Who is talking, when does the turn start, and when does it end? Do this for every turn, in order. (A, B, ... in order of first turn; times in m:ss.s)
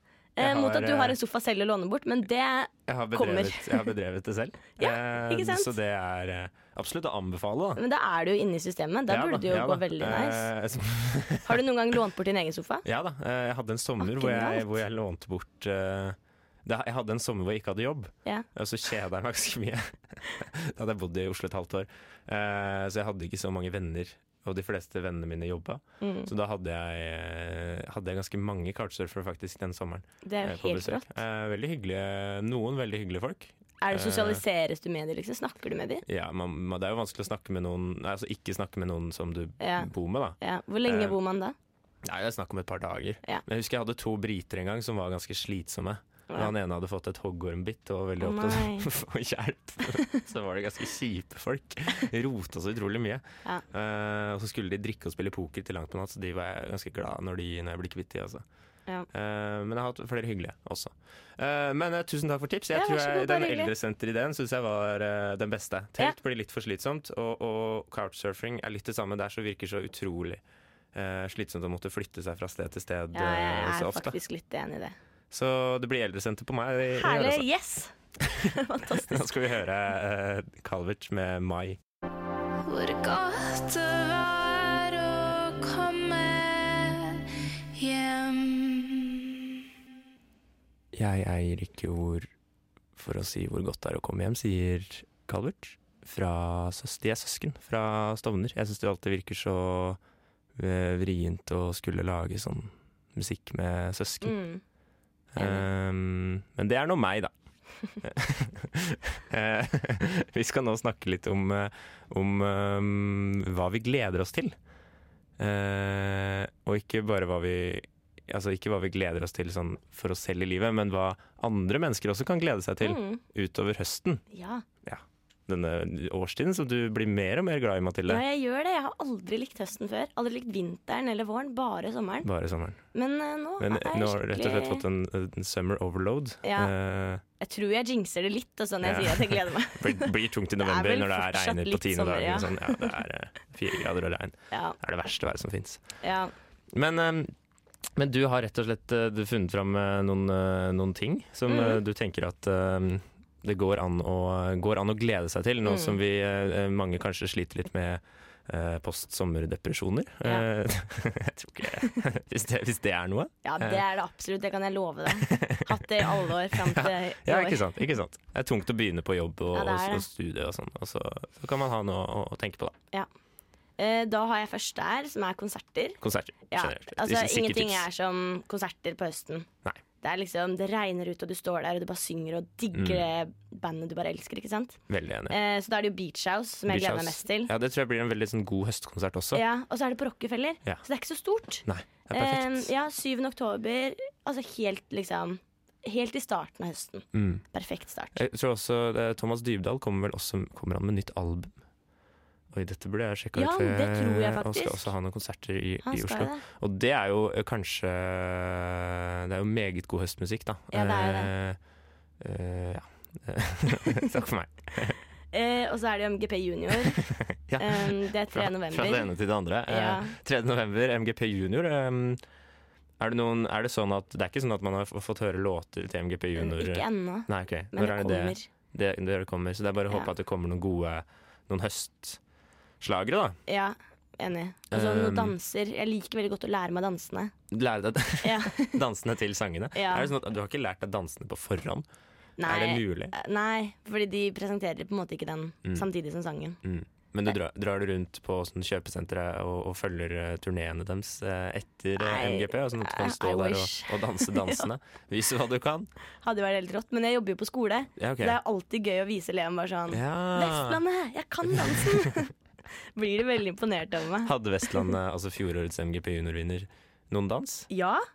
0:00.4-0:03.9 A
0:00.4-0:01.2 B
0:02.9-0:07.8 B
0:04.8-0:05.7 A
0:07.8-0:10.5 A
0:09.1-0:11.6 B
0:11.4-0:12.8 A
0:12.8-0:34.4 B
0:14.0-0:14.8 A
0:26.0-0:26.3 A
0:30.2-0:31.2 A
0:33.8-0:36.0 A
0:36.0-0:41.2 B
0:39.6-0:41.5 A
0:42.0-0:58.4 B
0:48.2-0:48.9 A
0:59.1-1:10.4 B
1:02.7-1:03.7 A
1:10.9-1:14.2 B
1:13.1-1:14.9 A
1:15.3-1:17.4 B
1:16.9-1:19.5 A
1:18.2-1:18.5 B
1:19.1-1:21.8 B
1:22.6-1:29.4 C
1:30.9-1:32.3 B
1:33.0-1:40.0 B
1:40.6-1:44.4 B
1:44.2-1:44.6 A
1:45.3-1:47.3 B
1:45.4-1:45.6 A
1:48.0-1:54.6 B
1:55.4-2:04.2 B
2:02.8-2:03.2 A
2:04.3-2:04.6 A
2:04.8-2:08.2 B
2:08.1-2:12.3 A
2:12.2-2:12.8 B
2:12.9-2:14.8 A
2:13.6-2:17.2 B
2:16.4-2:16.7 A
2:17.4-2:22.9 A
2:18.8-2:25.8 B
2:24.5-2:24.8 A
2:26.0-2:26.3 A
2:26.7-2:27.3 B
2:28.0-2:43.8 B
2:31.5-2:31.8 A
2:35.6-2:36.0 A
2:43.4-2:47.7 A
2:45.1-2:52.8 B
2:49.5-2:50.0 A
2:53.8-2:59.5 A
2:56.0-2:57.9 B
3:00.0-3:07.5 A
3:02.7-3:03.0 B
3:04.9-3:05.4 B
3:06.7-3:09.4 B
3:09.3-3:18.2 A
3:11.6-3:12.7 B
3:17.1-3:17.4 B
3:18.1-3:21.5 B
3:22.5-3:31.6 B
3:23.3-3:24.9 A
3:25.8-3:26.4 A
3:30.7-3:31.3 A
3:32.2-3:35.0 B
3:35.3-3:37.0 A
3:36.7-3:42.2 B
3:37.6-3:39.1 A
3:39.7-3:40.2 A
3:43.0-3:52.2 B
3:46.4-3:48.5 A
3:52.8-3:53.4 B
3:53.5-3:57.3 A
3:54.7-3:55.3 B
3:57.5-4:01.8 B
3:58.2-3:58.8 A
3:59.7-4:00.1 A
4:02.4-4:06.6 A
4:02.4-4:03.1 B
4:06.6-4:15.9 B
4:12.0-4:14.7 A
4:16.2-4:22.3 A
4:18.0-4:18.4 B
4:19.9-4:20.8 B
4:21.5-4:22.2 B
4:22.9-4:24.9 A
4:24.2-4:27.7 B
4:27.7-4:28.0 A